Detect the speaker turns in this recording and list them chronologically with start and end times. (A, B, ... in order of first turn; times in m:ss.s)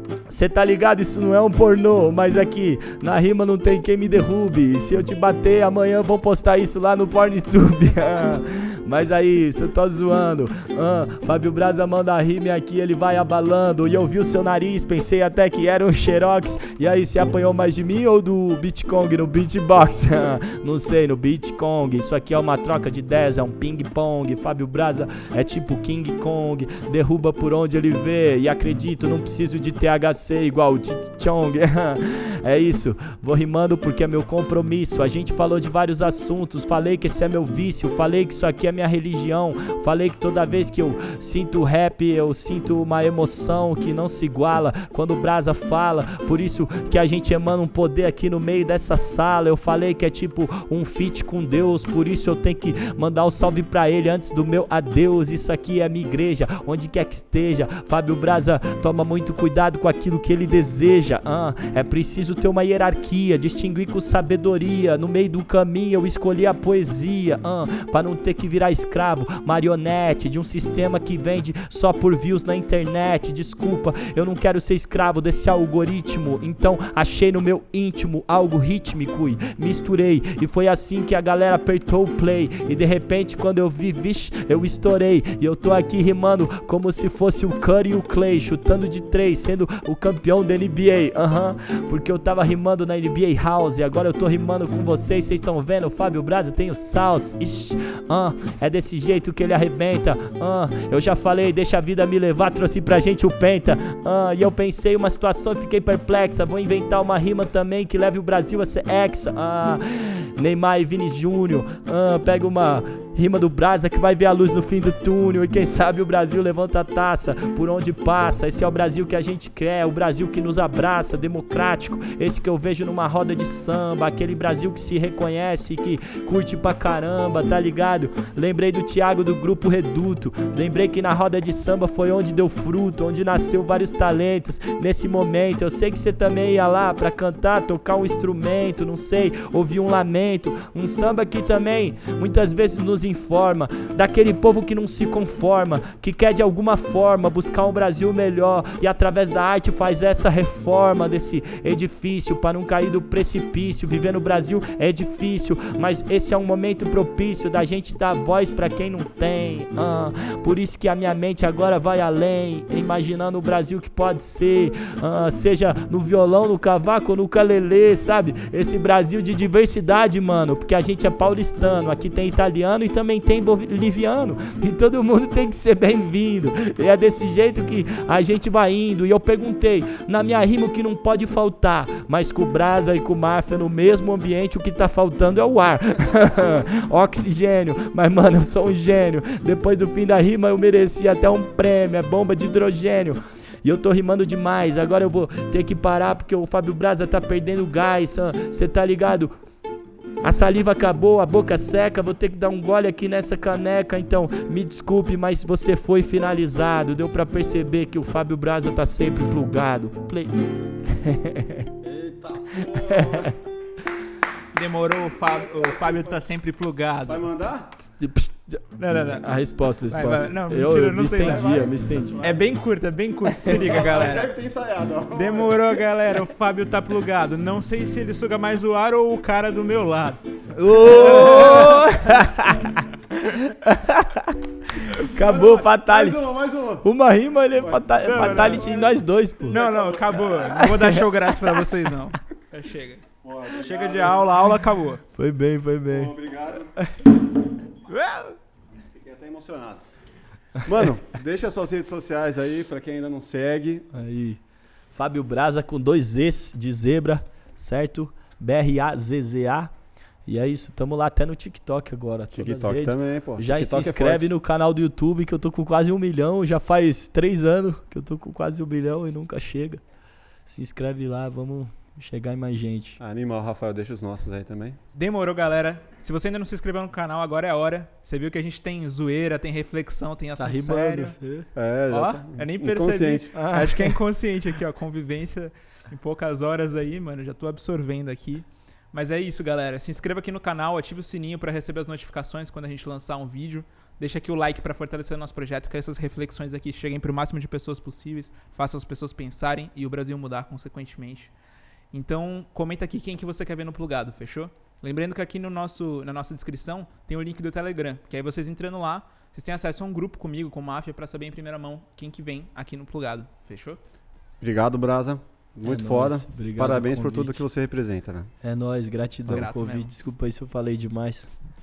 0:00.3-3:19.3 A
3:20.2-3:31.7 A
3:31.8-3:33.3 B
3:32.6-3:33.4 A
3:34.5-3:37.2 C
3:35.2-3:36.3 B
3:37.0-3:37.7 B
3:37.8-3:42.2 A
3:38.8-3:39.3 C
3:39.9-3:44.3 C
3:41.2-3:42.4 B
3:43.4-3:45.8 B
3:45.1-3:50.2 C
3:50.5-3:56.3 A
3:50.8-3:52.1 C
3:50.8-3:51.9 B
3:55.0-3:56.8 B
3:56.8-3:59.6 A
3:57.5-4:00.5 B
3:58.0-3:58.8 C
3:59.5-4:05.0 C
4:00.2-4:01.6 A
4:03.2-4:04.6 B
4:05.1-4:06.1 A
4:05.9-4:06.8 B
4:07.9-4:08.4 C
4:08.9-4:09.8 B
4:10.6-4:14.0 B
4:13.9-4:14.4 A
4:14.9-4:19.7 A
4:20.2-4:29.8 A
4:22.3-4:24.3 B
4:30.4-4:33.0 A
4:33.0-4:34.8 B
4:34.9-4:41.2 C
4:40.4-4:41.5 A
4:41.5-4:43.3 B
4:41.9-5:01.3 C
4:43.3-4:44.0 A
5:01.9-5:13.8 C
5:14.4-5:18.3 B
5:15.6-5:17.4 A
5:18.4-5:21.3 A
5:19.3-5:19.9 C